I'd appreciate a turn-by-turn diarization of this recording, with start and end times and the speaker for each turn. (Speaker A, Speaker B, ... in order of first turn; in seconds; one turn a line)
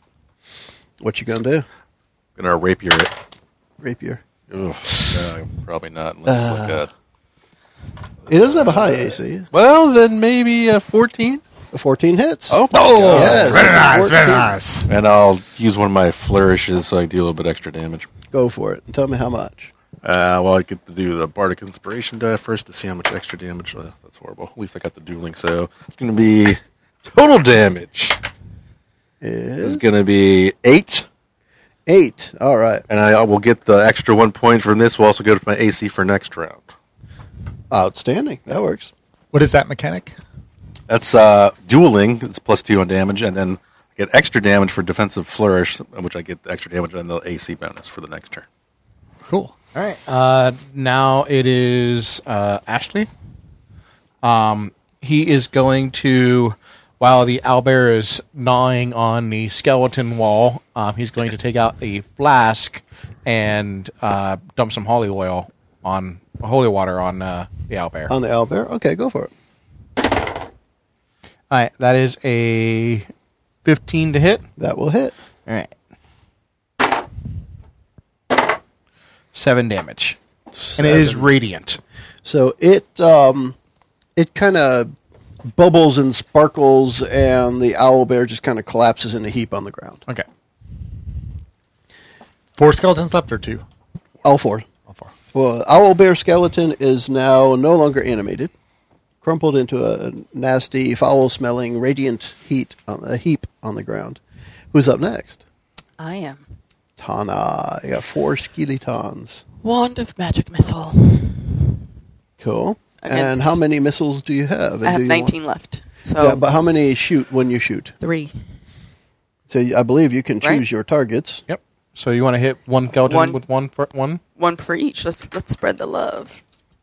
Speaker A: 1.0-1.7
Speaker B: 2.4-3.1
Speaker A: 3.8-4.2
Speaker B: 4.5-6.9
Speaker A: 6.3-6.9
Speaker A: 8.3-9.5
Speaker B: 8.3-11.4
Speaker A: 11.7-14.6
Speaker B: 12.5-13.9
Speaker C: 12.7-14.9
Speaker B: 14.9-18.1
Speaker A: 18.3-19.7
Speaker B: 20.0-28.2
Speaker A: 29.2-29.9
Speaker B: 29.6-31.1
Speaker A: 31.9-32.9
Speaker B: 32.9-36.7
Speaker A: 37.7-38.9
Speaker C: 39.3-40.1
Speaker B: 40.9-48.5
Speaker C: 49.3-49.5
Speaker D: 49.8-53.1
Speaker D: 54.2-68.1
Speaker A: 68.1-69.3
Speaker D: 71.5-73.1
Speaker D: 73.6-74.5
Speaker A: 74.6-75.1
Speaker D: 75.5-75.7
Speaker D: 79.3-80.2
Speaker A: 80.5-81.3
Speaker D: 80.8-81.8
Speaker A: 82.2-83.6
Speaker A: 84.2-84.9
Speaker A: 85.5-90.0
Speaker C: 92.6-93.6
Speaker A: 94.2-94.7
Speaker A: 95.3-98.5
Speaker A: 99.2-104.2
Speaker A: 104.7-105.4
Speaker E: 106.0-106.4
Speaker A: 107.0-109.4
Speaker E: 109.6-111.6
Speaker A: 112.4-115.3
Speaker E: 113.0-113.6
Speaker E: 114.8-116.4
Speaker A: 116.2-117.9
Speaker E: 118.0-118.3
Speaker A: 119.5-121.4
Speaker D: 121.5-124.2
Speaker E: 123.1-123.4
Speaker E: 124.4-126.4